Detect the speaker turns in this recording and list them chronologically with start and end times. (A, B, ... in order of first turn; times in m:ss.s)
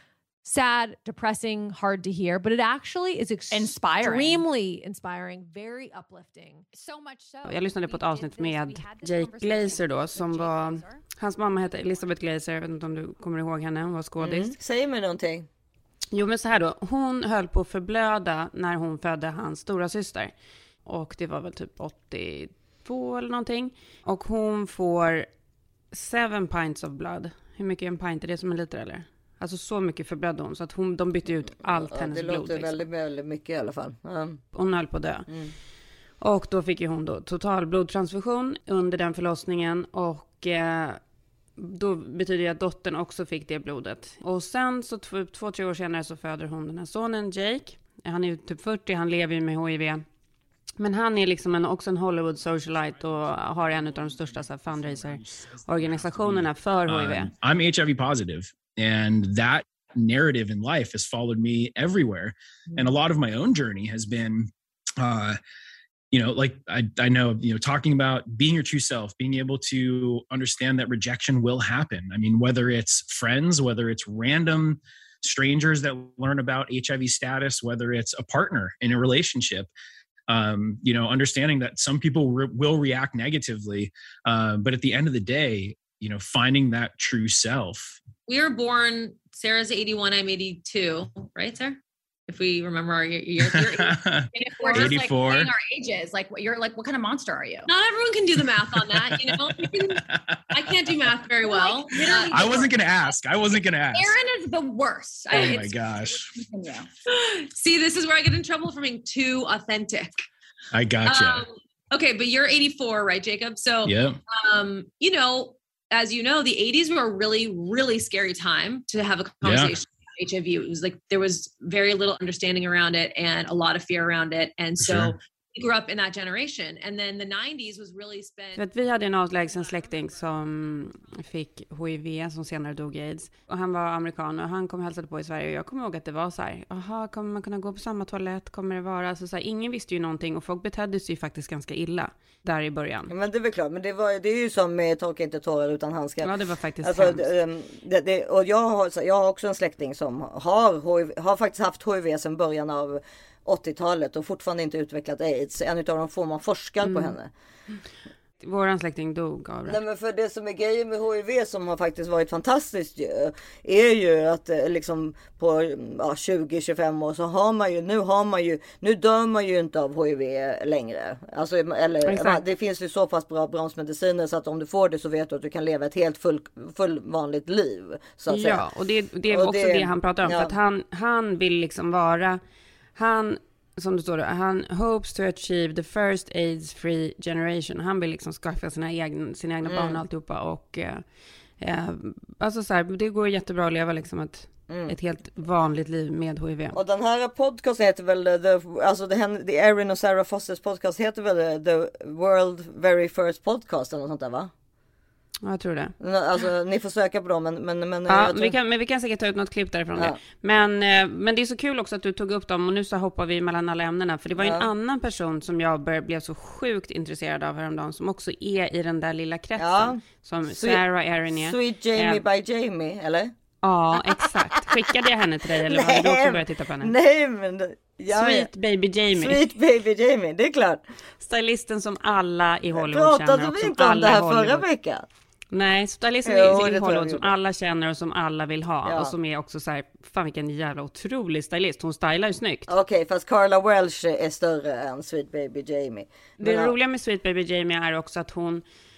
0:00.4-0:06.7 A
0:03.5-0:04.4 B
0:04.1-0:04.4 C
0:06.7-0:12.4 B
0:07.4-0:14.6 C
0:14.2-0:15.5 D
0:16.1-0:20.3 C
0:20.9-0:25.3 C
0:25.9-0:32.8 C
0:31.7-0:34.4 D
0:34.5-0:35.3 C
0:35.3-0:35.5 D
0:36.2-0:41.0 C
0:41.6-0:50.0 C
0:50.8-0:57.3 C
0:55.9-1:05.4 E
1:06.1-1:19.7 E
1:20.3-1:28.0 E
1:28.3-1:43.1 F
1:33.4-1:35.5 E
1:38.8-1:44.2 E
1:43.9-1:50.2 F
1:45.3-1:46.3 E
1:50.7-1:51.5 E
1:51.1-2:08.6 F
1:53.8-1:54.2 E
1:59.4-1:59.8 E
2:04.8-2:05.1 E
2:08.6-2:23.1 C
2:09.3-2:11.4 B
2:23.1-2:26.3 D
2:26.2-2:27.3 C
2:26.8-2:37.3 D
2:36.8-2:37.1 C
2:38.4-2:39.8 C
2:39.7-2:58.6 D
2:52.1-2:52.4 C
2:58.3-3:02.4 C
2:59.3-3:00.5 D
3:03.0-3:11.0 C
3:09.7-3:10.0 D
3:11.6-3:16.8 C
3:14.7-3:14.9 D
3:16.7-3:24.5 D
3:25.5-3:25.9 C
3:26.0-3:28.6 D
3:28.1-3:42.2 C
3:34.4-3:34.7 D
3:39.6-3:43.3 D
3:43.6-3:46.9 C
3:44.0-3:44.3 D
3:45.6-3:48.5 D
3:48.1-3:49.4 C
3:49.2-3:50.8 D
3:51.2-3:54.7 C
3:52.7-3:55.1 D
3:55.5-4:02.7 C
3:56.3-3:57.3 D
3:58.8-3:59.1 D
4:02.7-4:06.7 D
4:06.4-4:08.6 C